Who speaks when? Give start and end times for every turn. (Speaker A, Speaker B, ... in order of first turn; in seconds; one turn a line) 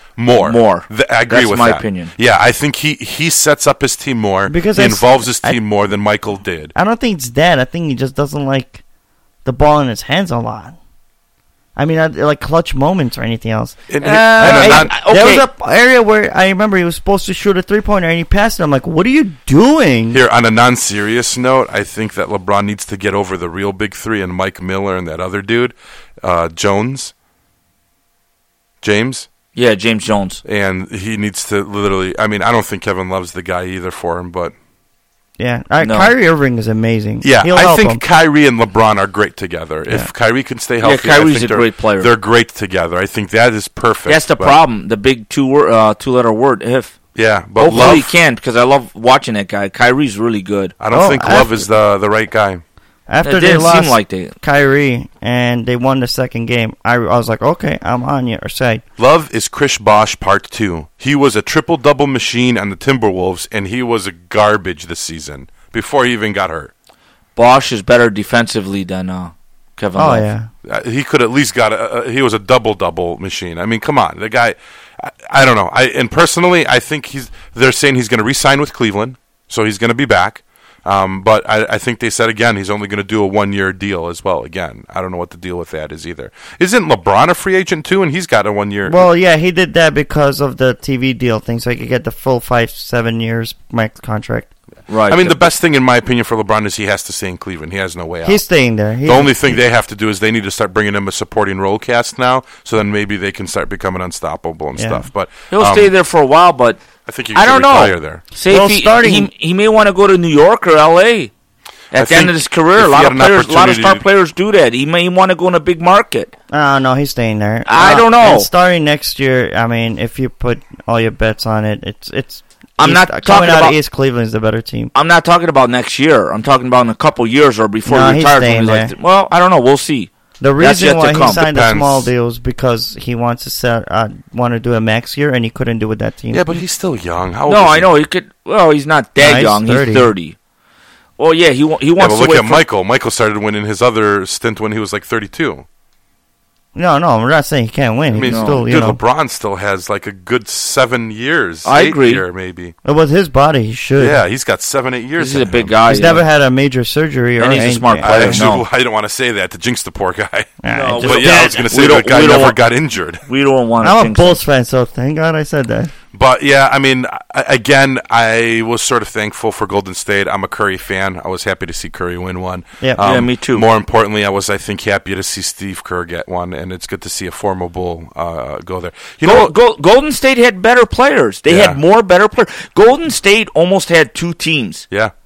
Speaker A: 0.2-6.7
Speaker B: 0.4-2.1
Speaker C: 4.5-5.6
Speaker C: 6.7-8.8
Speaker C: 9.4-10.8
Speaker C: 11.8-20.2
Speaker A: 13.9-14.9
Speaker B: 14.0-15.4
Speaker A: 20.1-27.1
Speaker A: 28.8-29.3
Speaker B: 29.5-30.4
Speaker A: 30.4-34.5
Speaker C: 35.4-38.0
Speaker B: 35.8-36.1
Speaker A: 37.2-44.6
Speaker B: 40.8-42.1
Speaker B: 44.1-47.0
Speaker A: 47.1-48.1
Speaker B: 47.6-50.7
Speaker A: 50.8-52.6
Speaker C: 50.9-51.6
Speaker C: 53.1-58.8
Speaker B: 53.2-54.4
Speaker A: 59.0-66.7
Speaker B: 67.3-70.2
Speaker C: 70.0-70.5
Speaker A: 70.6-89.0
Speaker C: 88.8-94.5
Speaker B: 94.9-95.5
Speaker A: 95.1-98.4
Speaker C: 98.2-99.6
Speaker A: 99.0-105.9
Speaker C: 104.8-105.0
Speaker B: 105.5-106.8
Speaker A: 107.0-108.2
Speaker B: 107.3-111.3
Speaker C: 108.5-109.3
Speaker B: 111.9-116.3
Speaker A: 111.9-114.0
Speaker C: 116.5-124.9
Speaker B: 117.7-118.5
Speaker B: 122.8-123.8
Speaker B: 124.9-131.4
Speaker C: 127.8-128.9
Speaker C: 130.4-136.6
Speaker A: 131.3-132.1
Speaker A: 136.3-137.9
Speaker B: 137.5-140.3
Speaker C: 139.2-140.1
Speaker B: 141.2-142.6
Speaker A: 142.0-145.6
Speaker C: 146.7-149.0
Speaker A: 148.1-152.7
Speaker B: 148.2-148.7
Speaker B: 151.6-152.2
Speaker C: 152.8-154.2
Speaker A: 154.0-155.8
Speaker B: 155.2-156.2
Speaker C: 155.9-158.4
Speaker B: 157.4-158.6
Speaker A: 158.0-163.2
Speaker C: 160.6-161.3
Speaker B: 160.7-162.6
Speaker B: 163.3-164.4
Speaker C: 163.8-165.9
Speaker A: 166.1-179.5
Speaker B: 173.0-173.6
Speaker B: 179.2-184.9
Speaker A: 181.5-181.8